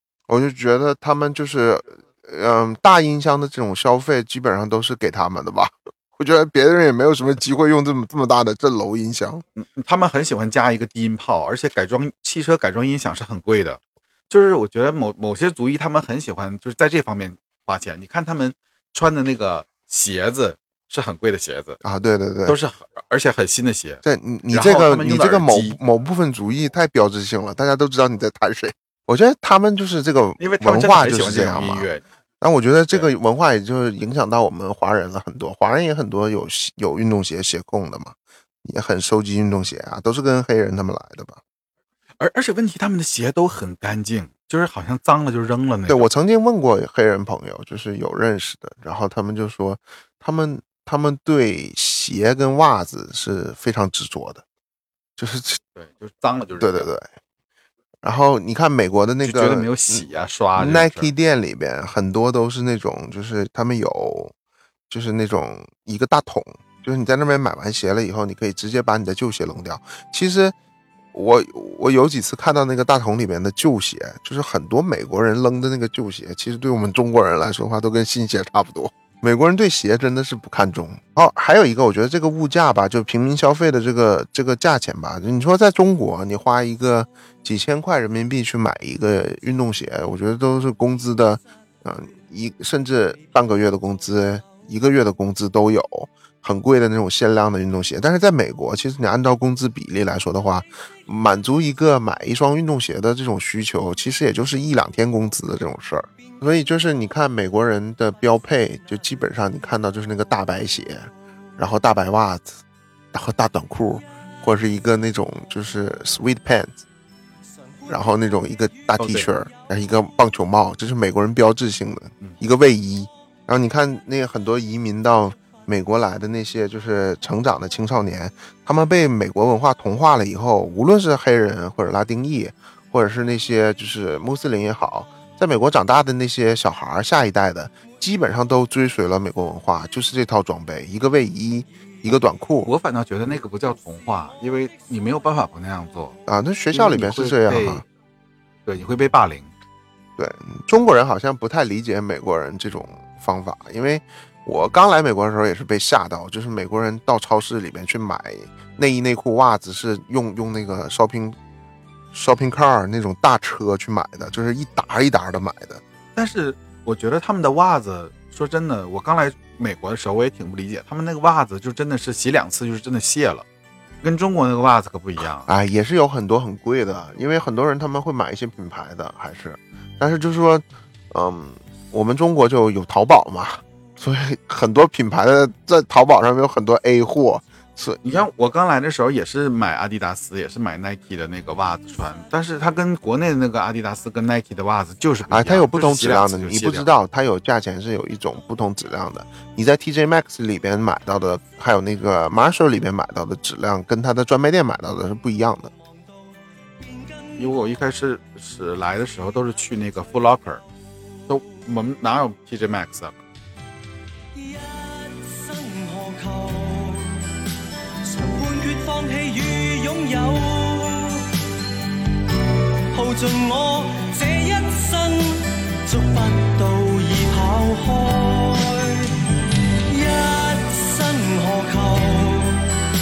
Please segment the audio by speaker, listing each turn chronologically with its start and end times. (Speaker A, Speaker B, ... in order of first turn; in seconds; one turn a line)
Speaker A: 0.3-9.4
Speaker B: 9.6-21.8
Speaker A: 21.8-22.6
Speaker B: 22.4-25.8
Speaker A: 24.0-31.9
Speaker B: 30.4-32.0
Speaker A: 32.4-41.4
Speaker B: 42.2-46.1
Speaker A: 45.9-54.4
Speaker A: 55.2-55.6
Speaker B: 55.7-56.9
Speaker A: 56.6-57.1
Speaker A: 58.0-64.3
Speaker B: 59.2-61.1
Speaker A: 64.9-70.5
Speaker A: 71.1-112.6
Speaker A: 113.1-116.8
Speaker A: 117.9-142.7
Speaker B: 119.0-119.3
Speaker B: 142.6-146.2
Speaker A: 146.3-147.8
Speaker B: 146.7-147.8
Speaker B: 148.7-149.5
Speaker A: 150.2-161.4
Speaker A: 162.1-165.8
Speaker B: 166.2-173.4
Speaker B: 174.0-175.5
Speaker A: 175.4-188.2
Speaker B: 188.0-196.9
Speaker A: 195.3-205.7
Speaker B: 207.4-210.6
Speaker B: 211.3-213.2
Speaker C: 215.2-217.1
Speaker C: 218.1-221.2
Speaker C: 222.9-229.0
Speaker C: 229.9-232.6